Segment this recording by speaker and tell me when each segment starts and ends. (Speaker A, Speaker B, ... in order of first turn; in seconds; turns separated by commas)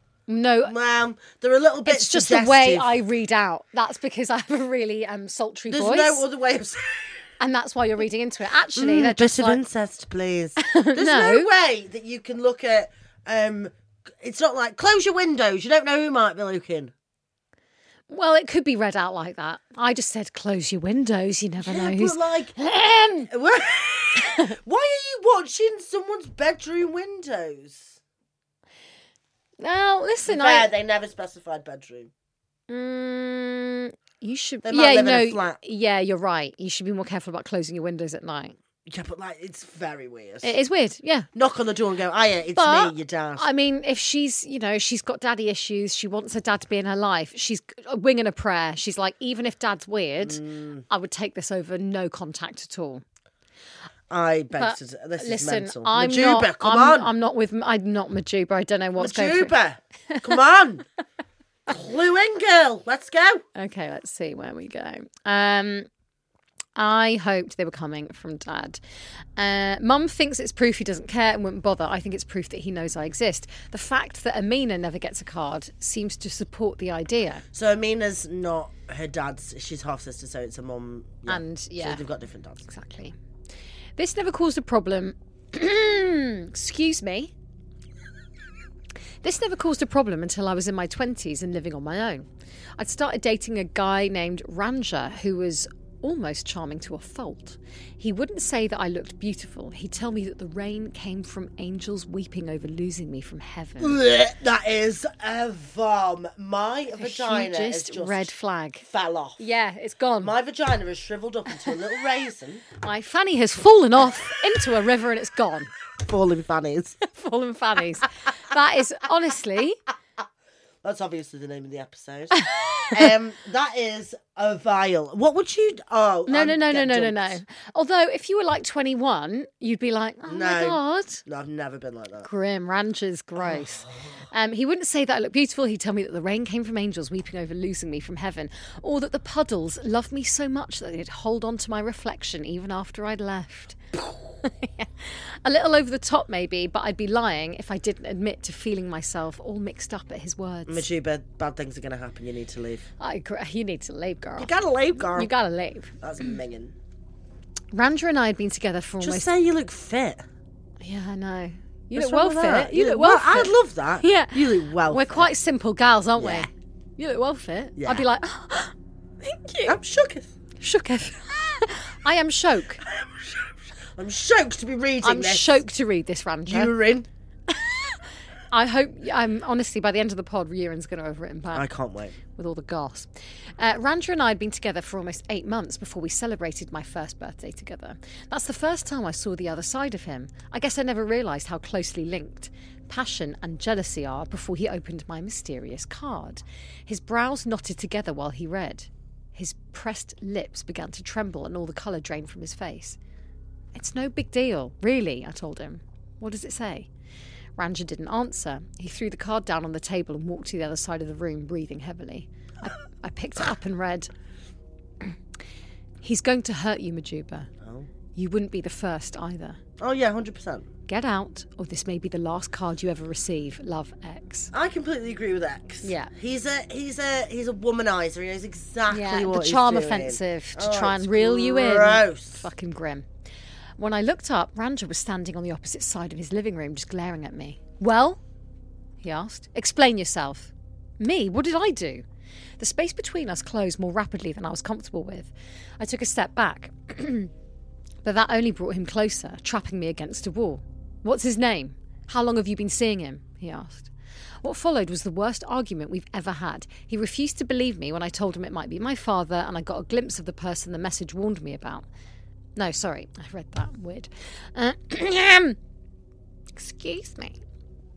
Speaker A: 0.3-0.7, Speaker B: 0.6-2.9, Speaker A: 1.9-6.2, Speaker B: 5.7-7.3, Speaker A: 7.4-9.6, Speaker B: 8.8-16.9, Speaker A: 10.6-11.5, Speaker A: 18.1-23.3, Speaker B: 21.6-22.6, Speaker B: 23.3-28.0, Speaker A: 24.2-24.5, Speaker A: 29.6-30.7, Speaker B: 30.3-32.1, Speaker A: 32.7-38.6, Speaker B: 34.6-35.6, Speaker B: 38.9-40.6, Speaker A: 40.4-41.3, Speaker B: 41.3-43.5, Speaker A: 42.5-53.0, Speaker B: 50.2-50.9, Speaker B: 54.1-57.1, Speaker A: 54.6-59.5, Speaker B: 59.0-60.9, Speaker B: 61.7-63.5, Speaker A: 63.6-65.9, Speaker A: 66.8-68.8, Speaker A: 69.4-77.4, Speaker B: 77.5-82.7, Speaker A: 81.3-82.0, Speaker A: 82.7-83.2, Speaker A: 84.0-87.3, Speaker A: 89.2-92.3, Speaker A: 92.8-104.0, Speaker B: 103.8-108.3, Speaker A: 106.9-108.9, Speaker B: 108.9-109.4, Speaker A: 109.4-110.3, Speaker B: 110.2-112.7, Speaker A: 112.8-115.7, Speaker B: 116.0-117.0, Speaker A: 117.0-119.8, Speaker B: 120.8-127.4, Speaker A: 122.3-123.1, Speaker A: 126.3-131.2, Speaker B: 130.3-132.3, Speaker A: 132.2-150.9, Speaker B: 133.4-134.2, Speaker B: 150.7-152.9, Speaker A: 153.0-156.0, Speaker B: 154.4-155.3, Speaker B: 156.0-156.8, Speaker A: 157.7-159.3, Speaker B: 159.0-160.2, Speaker A: 160.8-169.8, Speaker B: 161.9-165.3, Speaker B: 166.2-166.5, Speaker B: 167.8-168.1, Speaker B: 169.7-170.3, Speaker A: 170.6-172.8, Speaker B: 172.8-175.6, Speaker A: 175.0-176.7, Speaker B: 176.5-177.1, Speaker A: 177.5-181.7, Speaker B: 181.5-182.2, Speaker A: 182.3-203.0, Speaker A: 203.7-206.9, Speaker A: 207.6-214.1, Speaker A: 216.0-217.5, Speaker B: 217.6-217.9, Speaker A: 218.1-219.6, Speaker B: 219.8-220.7, Speaker A: 220.9-224.5, Speaker B: 224.5-232.5, Speaker A: 225.8-226.1, Speaker A: 228.9-233.1, Speaker A: 233.8-238.2, Speaker A: 239.0-242.1, Speaker A: 242.6-247.3, Speaker A: 248.0-253.9, Speaker A: 254.4-261.9, Speaker A: 262.6-265.6, Speaker A: 266.5-267.4